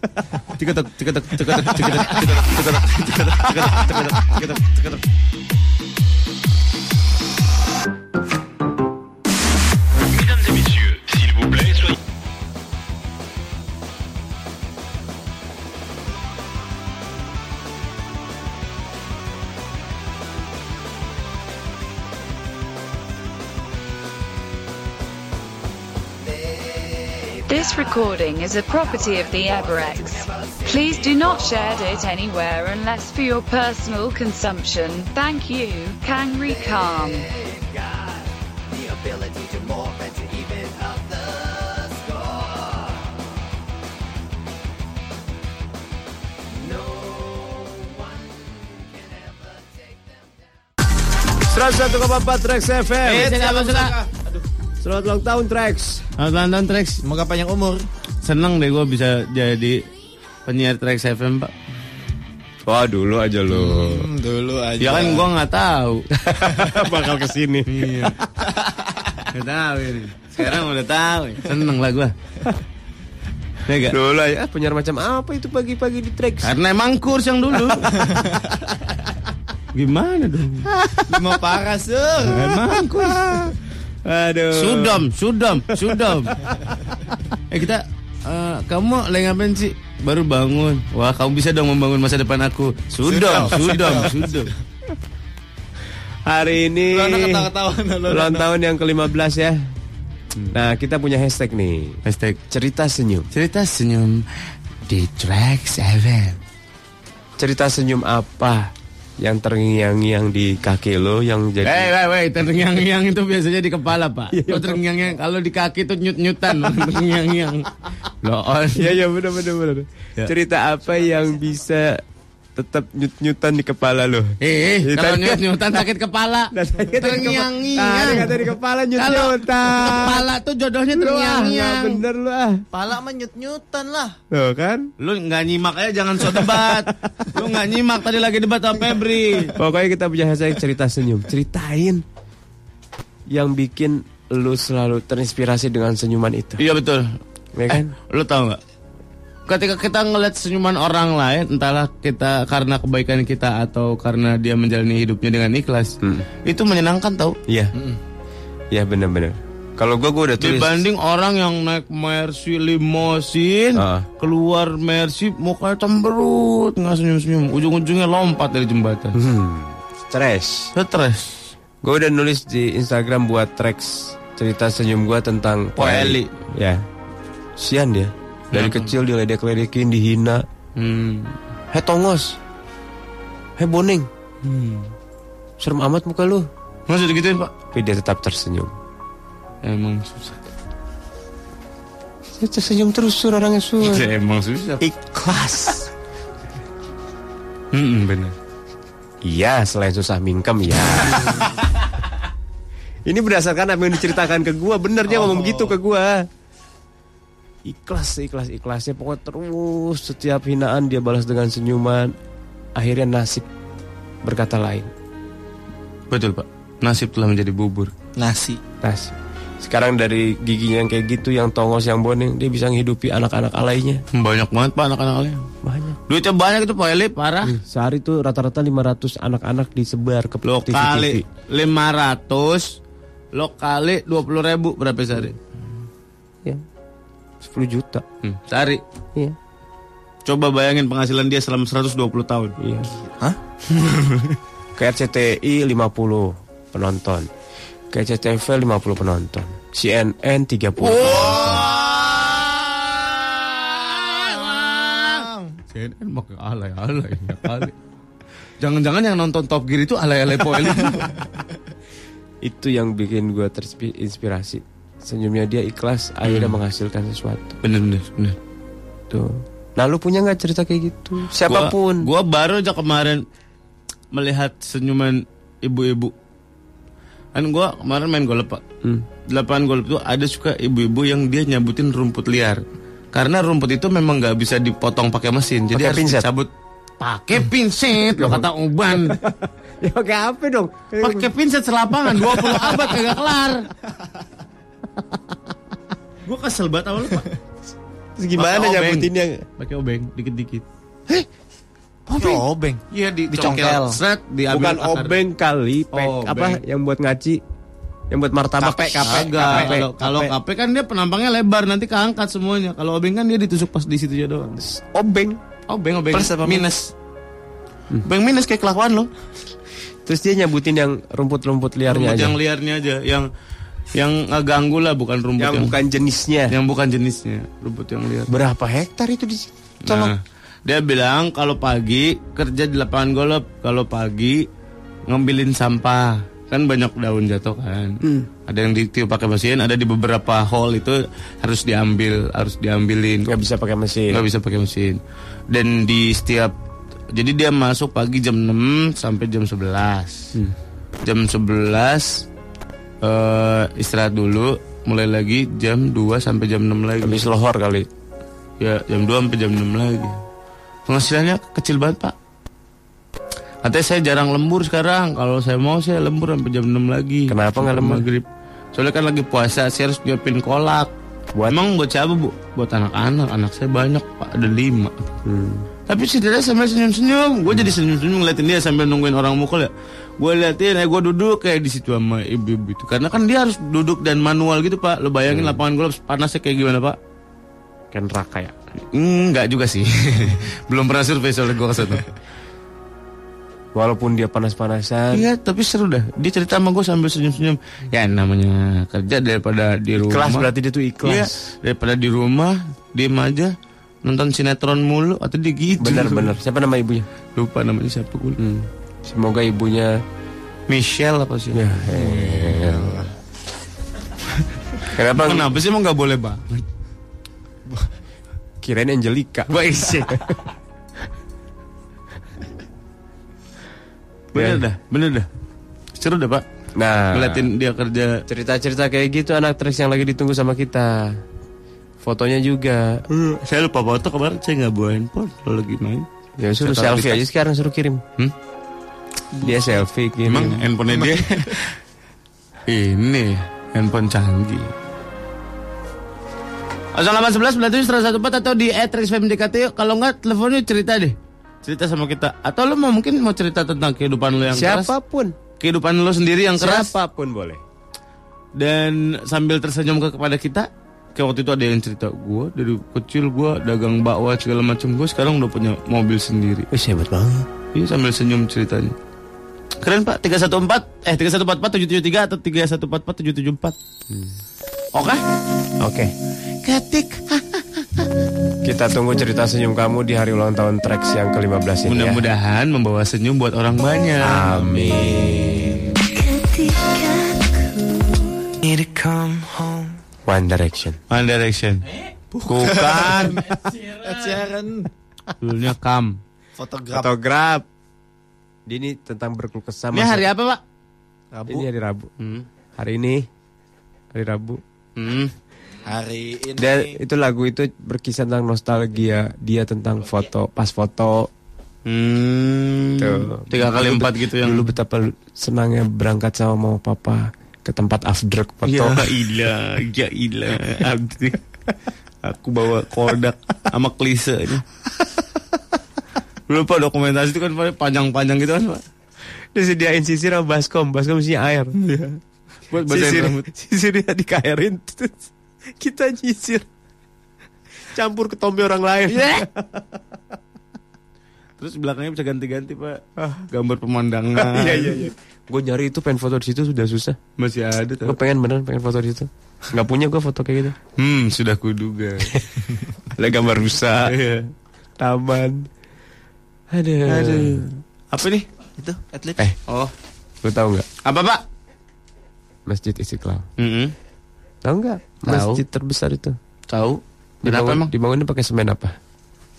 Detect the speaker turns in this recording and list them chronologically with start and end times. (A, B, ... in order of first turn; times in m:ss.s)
0:00.5-0:04.8 A
0:01.6-0:02.2 B
0:27.5-0:37.3 C
0:51.5-0:53.4 B
0:53.0-0:54.0 A
0:53.1-0:54.4 D
0:54.8-0:56.0 B
0:56.2-0:57.0 A
0:57.0-0:57.9 D
0:58.2-0:59.8 A
1:00.5-1:01.5 A
1:02.6-1:04.1 B
1:03.5-1:05.3 D
1:04.8-1:06.1 A
1:06.2-1:08.1 B
1:07.7-1:08.2 A
1:08.5-1:09.1 D
1:09.3-1:12.2 A
1:13.6-1:16.6 B
1:16.4-1:18.1 A
1:19.7-1:20.7 A
1:21.0-1:22.6 D
1:22.3-1:23.2 A
1:22.9-1:25.1 B
1:24.6-1:26.4 A
1:25.9-1:26.3 B
1:27.5-1:34.5 A
1:33.1-1:34.2 D
1:36.3-1:37.5 B
1:36.9-1:38.5 D
1:38.1-1:39.7 B
1:40.5-1:42.0 B
1:42.1-1:42.4 A
1:42.5-1:43.3 B
1:43.3-1:44.2 A
1:44.9-1:46.4 A
1:47.4-1:51.9 B
1:51.6-1:57.7 A
1:54.3-1:54.8 B
1:58.2-1:59.0 A
1:58.7-2:02.0 B
2:02.6-2:05.8 B
2:04.4-2:08.3 A
2:06.5-2:10.3 B
2:09.0-2:12.0 A
2:10.9-2:12.6 B
2:12.7-2:14.2 D
2:14.3-2:14.9 B
2:15.0-2:19.5 A
2:16.3-2:17.3 B
2:19.6-2:22.0 B
2:23.3-2:26.6 B
2:26.6-2:27.1 A
2:27.6-2:28.0 B
2:27.7-2:28.6 A
2:29.5-2:37.4 A
2:36.0-2:36.3 B
2:37.5-2:37.8 B
2:38.7-2:40.8 B
2:40.4-2:49.2 A
2:43.8-2:44.1 B
2:49.2-2:50.7 B
2:50.7-2:51.4 A
2:51.8-2:56.8 B
2:55.8-2:56.3 A
2:57.6-3:00.4 B
2:58.5-2:58.9 A
3:00.8-3:01.4 A
3:01.7-3:02.4 B
3:03.6-3:04.1 B
3:04.4-3:04.9 A
3:05.6-3:06.5 B
3:06.9-3:07.5 A
3:07.7-3:08.7 B
3:09.6-3:10.4 A
3:12.4-3:14.1 B
3:13.8-3:14.8 A
3:14.8-3:15.9 B
3:17.7-3:18.4 A
3:19.2-3:21.4 B
3:23.1-3:26.2 B
3:25.1-3:25.8 D
3:27.6-3:32.1 B
3:32.8-3:33.5 B
3:34.2-3:34.9 B
3:36.1-3:37.9 A
3:38.2-3:38.6 D
3:38.8-3:44.0 B
3:44.1-3:45.5 A
3:45.6-3:46.0 B
3:46.1-3:47.5 A
3:47.5-3:51.2 B
3:50.4-3:52.7 A
3:53.3-3:55.4 A
3:57.4-3:58.0 B
3:58.2-3:58.8 A
4:00.3-4:02.6 A
4:02.6-4:02.9 B
4:03.7-4:04.3 A
4:04.8-4:07.3 B
4:07.9-4:11.7 B
4:10.8-4:11.8 A
4:11.3-4:15.5 D
4:13.7-4:17.8 A
4:18.6-4:21.1 A
4:22.4-4:27.6 B
4:26.2-4:26.6 A
4:27.6-4:28.4 A
4:29.1-4:32.1 B
4:31.5-4:33.2 A
4:34.1-4:36.2 A
4:37.3-4:38.6 A
4:39.3-4:42.6 A
4:43.1-4:46.5 A
4:45.7-4:46.3 B
4:47.0-4:49.2 A
4:48.2-4:51.3 B
4:51.0-4:53.7 A
4:52.0-4:53.0 B
4:56.2-4:57.3 A
4:58.2-4:59.4 B
4:58.4-5:00.6 A
5:02.1-5:02.4 B
5:02.1-5:04.0 D
5:02.9-5:05.2 A
5:04.5-5:07.4 B
5:05.9-5:06.6 A
5:08.1-5:10.3 B
5:08.6-5:09.8 D
5:09.0-5:14.6 A
5:14.6-5:15.4 B
5:15.7-5:16.9 A
5:16.1-5:16.7 D
5:18.0-5:19.1 A
5:20.1-5:22.4 B
5:21.9-5:23.3 A
5:24.0-5:25.8 A
5:25.4-5:26.6 B
5:26.5-5:28.3 A
5:28.3-5:30.1 B
5:29.9-5:34.4 A
5:35.1-5:43.3 A
5:38.0-5:38.3 B
5:43.3-5:44.2 B
5:44.1-5:46.6 A
5:47.1-5:50.3 A
5:51.0-5:52.2 A
5:53.0-5:57.3 A
5:57.0-5:57.9 B
5:58.6-6:00.2 A
6:00.9-6:02.2 A
6:03.6-6:10.9 A
6:07.3-6:08.1 B
6:11.5-6:15.1 A
6:15.2-6:15.7 B
6:15.9-6:27.0 A
6:25.3-6:25.6 B
6:27.9-6:28.6 B
6:28.9-6:32.0 A
6:33.8-6:35.2 B
6:35.1-6:40.5 A
6:40.0-6:41.5 B
6:41.0-6:46.3 A
6:45.8-6:47.1 B
6:47.4-6:48.5 A
6:48.4-6:50.0 B
6:50.7-6:53.1 A
6:51.5-6:53.1 B
6:54.9-6:55.5 B
6:54.9-6:56.6 A
6:58.6-7:00.4 B
6:59.5-7:00.3 A
7:04.3-7:05.3 A
7:04.4-7:04.6 B
7:06.0-7:06.4 A
7:06.8-7:07.5 B
7:07.1-7:08.2 A
7:08.3-7:11.1 B
7:12.0-7:13.4 B
7:13.4-7:16.1 A
7:16.4-7:18.0 B
7:16.6-7:17.3 A
7:19.4-7:19.7 D
7:19.4-7:20.6 B
7:20.3-7:21.8 A
7:20.9-7:21.2 D
7:22.7-7:24.7 A
7:27.0-7:34.9 A
7:34.5-7:35.4 B
7:35.6-7:36.9 A
7:36.6-7:37.6 B
7:38.6-7:46.7 A
7:46.7-7:47.5 B
7:47.7-7:49.0 A
7:49.8-7:53.8 A
7:54.1-7:54.4 B
7:55.0-7:55.2 A
7:55.8-7:56.1 B
7:56.6-7:57.4 A
7:58.6-8:02.2 B
8:01.8-8:04.8 A
8:04.2-8:05.8 B
8:06.3-8:08.0 E
8:08.8-8:09.2 A
8:09.2-8:09.8 E
8:10.3-8:11.0 B
8:11.1-8:11.8 A
8:12.3-8:14.9 D
8:12.5-8:13.4 A
8:15.4-8:16.2 A
8:16.6-8:17.1 D
8:16.9-8:17.7 B
8:18.7-8:20.3 B
8:19.9-8:20.6 A
8:21.3-8:21.7 D
8:21.5-8:22.1 B
8:22.2-8:22.5 A
8:22.8-8:23.3 B
8:24.1-8:24.6 B
8:25.0-8:25.3 A
8:25.9-8:27.0 D
8:26.6-8:31.3 B
8:31.9-8:34.7 A
8:33.0-8:39.1 B
8:38.6-8:41.4 A
8:42.2-8:44.6 A
8:46.5-8:48.8 A
8:49.6-8:51.8 B
8:51.8-8:52.2 A
8:52.7-8:53.5 A
8:52.8-8:56.7 B
8:57.9-9:00.0 B
9:01.6-9:05.1 A
9:03.2-9:03.5 B
9:04.4-9:07.2 B
9:07.4-9:08.2 A
9:08.0-9:10.8 B
9:11.0-9:12.4 A
9:13.2-9:14.1 B
9:14.1-9:14.5 A
9:15.0-9:15.7 B
9:16.7-9:17.6 B
9:17.1-9:18.5 A
9:18.8-9:19.4 D
9:19.7-9:19.9 A
9:20.4-9:20.9 B
9:21.0-9:21.4 A
9:22.7-9:23.5 B
9:23.6-9:23.9 A
9:24.6-9:26.4 B
9:25.3-9:25.6 A
9:26.7-9:27.9 A
9:27.4-9:29.0 B